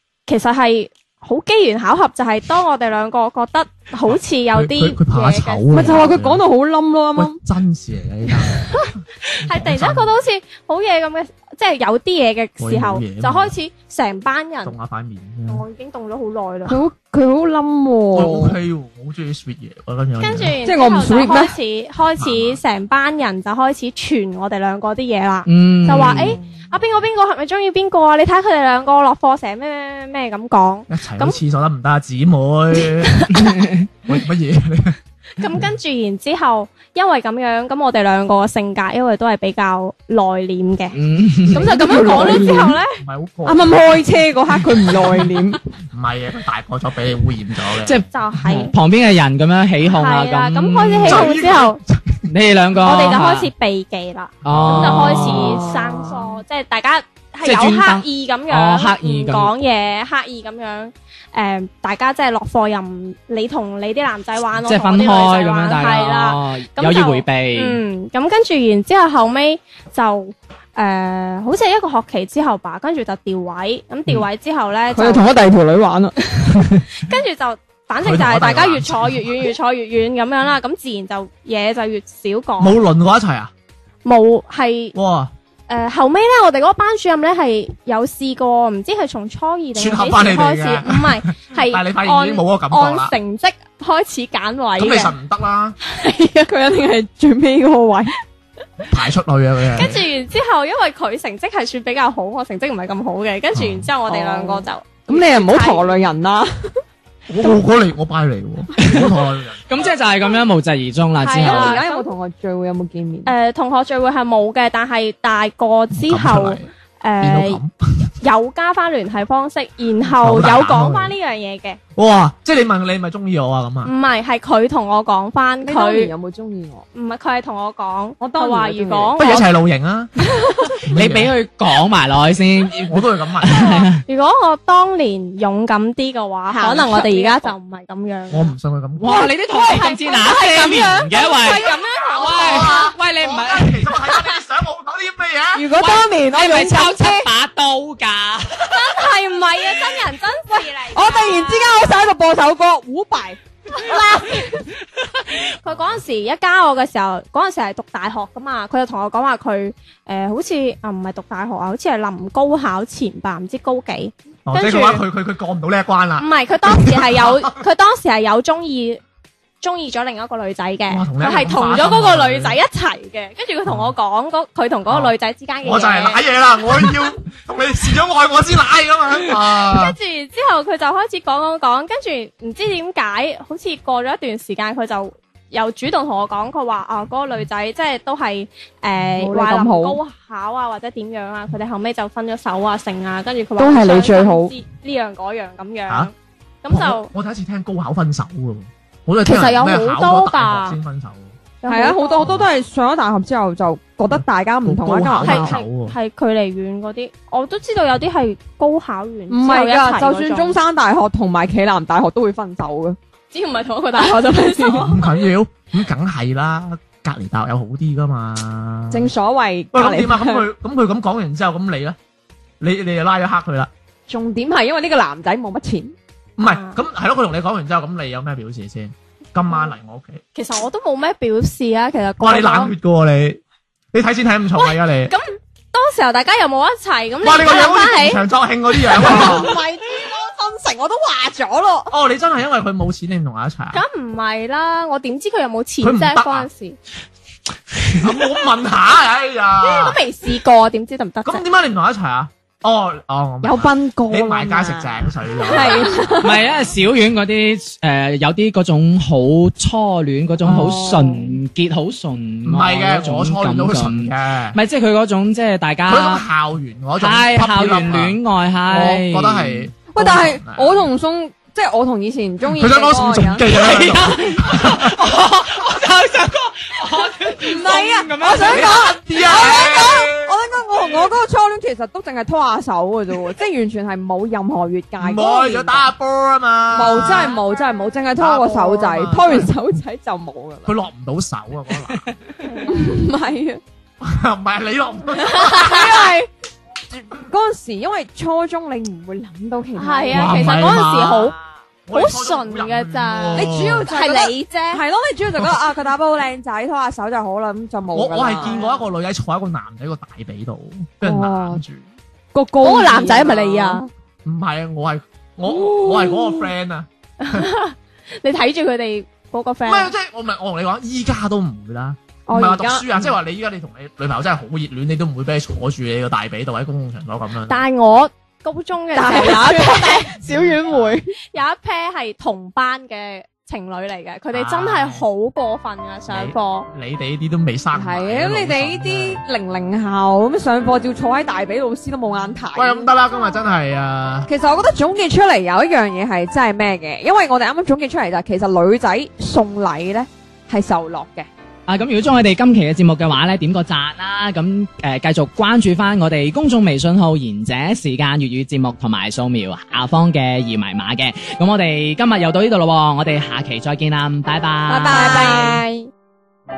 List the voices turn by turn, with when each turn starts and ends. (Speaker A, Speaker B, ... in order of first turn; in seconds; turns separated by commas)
Speaker A: 0.3-6.1, Speaker B: 4.1-6.4, Speaker C: 5.7-7.4, Speaker B: 7.2-10.2, Speaker A: 8.8-14.8, Speaker B: 12.6-13.5, Speaker B: 14.7-15.7, Speaker A: 15.5-16.8, Speaker C: 16.7-18.6, Speaker B: 18.1-20.6, Speaker A: 20.2-31.4, Speaker C: 20.6-21.6, Speaker B: 22.2-22.6, Speaker D: 25.5-26.4, Speaker C: 26.2-26.5, Speaker B: 30.9-33.5, Speaker A: 32.8-33.4, Speaker D: 33.3-33.9, Speaker B: 34.1-35.0, Speaker A: 35.4-41.0, Speaker D: 40.9-42.1, Speaker C: 41.5-42.8, Speaker A: 41.5-43.0, Speaker B: 43.0-43.8, Speaker C: 43.5-45.6, Speaker B: 45.9-48.0, Speaker D: 47.8-51.3, Speaker A: 48.1-48.7, Speaker A: 49.8-51.8, Speaker B: 51.1-52.2, Speaker D: 52.3-53.5, Speaker A: 52.8-75.3, Speaker B: 54.4-55.1, Speaker D: 54.5-55.6, Speaker C: 55.2-56.4, Speaker D: 57.4-59.5, Speaker D: 64.7-67.8, Speaker C: 74.9-76.8, Speaker A: 76.3-82.8, Speaker B: 78.0-79.3, Speaker B: 82.6-83.5, Speaker A: 84.0-85.0, Speaker B: 85.0-85.3, Speaker A: 85.7-95.1, Speaker B: 89.8-93.1, Speaker B: 94.8-95.8, Speaker A: 95.8-96.5, Speaker C: 96.5-98.1, Speaker B: 98.9-100.0, Speaker A: 99.7-105.8, Speaker B: 103.5-103.9, Speaker C: 104.1-106.8, Speaker B: 107.3-109.9, Speaker D: 109.7-111.8, Speaker A: 111.2-112.1, Speaker C: 111.4-113.3, Speaker A: 113.3-117.6, Speaker B: 116.0-116.7, Speaker B: 117.2-118.1, Speaker A: 118.2-121.8, Speaker B: 120.2-121.1, Speaker B: 122.0-123.9, Speaker A: 123.8-126.1, Speaker C: 125.6-126.9, Speaker A: 126.9-129.5, Speaker C: 128.2-129.4, Speaker B: 129.2-130.1, Speaker B: 130.8-131.3, Speaker D: 130.9-134.0, Speaker B: 132.9-133.7, Speaker A: 134.1-138.5, Speaker C: 136.5-137.5, Speaker B: 138.3-139.3, Speaker D: 139.0-143.9, Speaker C: 139.1-142.6, Speaker A: 141.1-142.9, Speaker B: 142.2-145.7, Speaker C: 145.5-147.3, Speaker D: 145.8-148.9, Speaker A: 148.7-151.9, Speaker C: 150.9-154.0, Speaker A: 153.7-154.6, Speaker A: 155.5-165.1, Speaker B: 155.7-156.0, Speaker B: 164.5-167.4, Speaker A: 166.2-169.0, Speaker A: 169.6-176.2, Speaker B: 170.9-172.6, Speaker B: 173.7-173.9, Speaker B: 175.6-179.9, Speaker A: 179.3-196.1, Speaker C: 189.2-190.0, Speaker C: 193.6-194.5, Speaker A: 196.6-197.1, Speaker B: 196.7-201.4, Speaker A: 199.2-200.8, Speaker A: 201.6-202.3, Speaker C: 201.7-205.6, Speaker B: 202.2-202.5, Speaker B: 204.1-206.0, Speaker A: 205.2-210.6, Speaker C: 209.3-213.0, Speaker A: 213.3-215.2, Speaker C: 214.0-214.9, Speaker B: 214.8-219.1, Speaker C: 218.9-220.5, Speaker B: 219.7-222.0, Speaker B: 222.6-223.7, Speaker C: 224.1-226.0, Speaker B: 226.4-230.2, Speaker A: 226.4-226.8, Speaker A: 230.3-232.7, Speaker B: 232.2-233.4, Speaker B: 233.9-235.1, Speaker A: 234.6-238.2, Speaker B: 237.2-239.5, Speaker C: 238.9-241.9, Speaker B: 241.9-243.8, Speaker A: 243.7-246.8, Speaker B: 245.8-246.5, Speaker B: 247.9-250.0, Speaker A: 249.6-251.4, Speaker B: 251.2-256.0, Speaker C: 253.4-256.4, Speaker A: 255.4-256.2, Speaker D: 256.2-266.2, Speaker C: 260.4-261.4, Speaker B: 262.4-264.6, Speaker B: 265.9-270.9, Speaker D: 267.0-269.7, Speaker C: 269.9-273.6, Speaker B: 272.5-275.0, Speaker D: 273.5-278.7, Speaker C: 277.4-285.9, Speaker B: 278.4-280.3, Speaker B: 285.0-287.4, Speaker C: 286.7-290.8, Speaker B: 288.2-289.5, Speaker B: 290.7-292.1, Speaker D: 291.9-292.1, Speaker C: 292.6-293.6, Speaker B: 294.0-296.1, Speaker A: 295.4-295.7, Speaker C: 295.4-296.3, Speaker C: 296.9-300.8, Speaker A: 299.8-301.4, Speaker B: 300.1-301.3, Speaker B: 301.9-303.9, Speaker A: 301.9-304.8, Speaker C: 303.3-308.6, Speaker B: 307.9-311.9, Speaker A: 308.4-308.8, Speaker C: 311.0-311.6, Speaker C: 312.3-313.9, Speaker A: 312.6-313.9, Speaker B: 314.2-317.5, Speaker C: 315.6-316.4, Speaker A: 317.2-319.9, Speaker B: 319.6-327.6, Speaker C: 322.3-323.2, Speaker A: 327.5-330.2, Speaker C: 328.9-331.1, Speaker B: 330.3-330.9, Speaker A: 331.3-336.7, Speaker B: 334.3-335.1, Speaker B: 336.1-339.2, Speaker C: 337.7-342.9, Speaker B: 342.6-344.3, Speaker C: 344.3-351.3, Speaker D: 351.7-365.3, Speaker C: 364.7-365.6, Speaker A: 364.8-365.9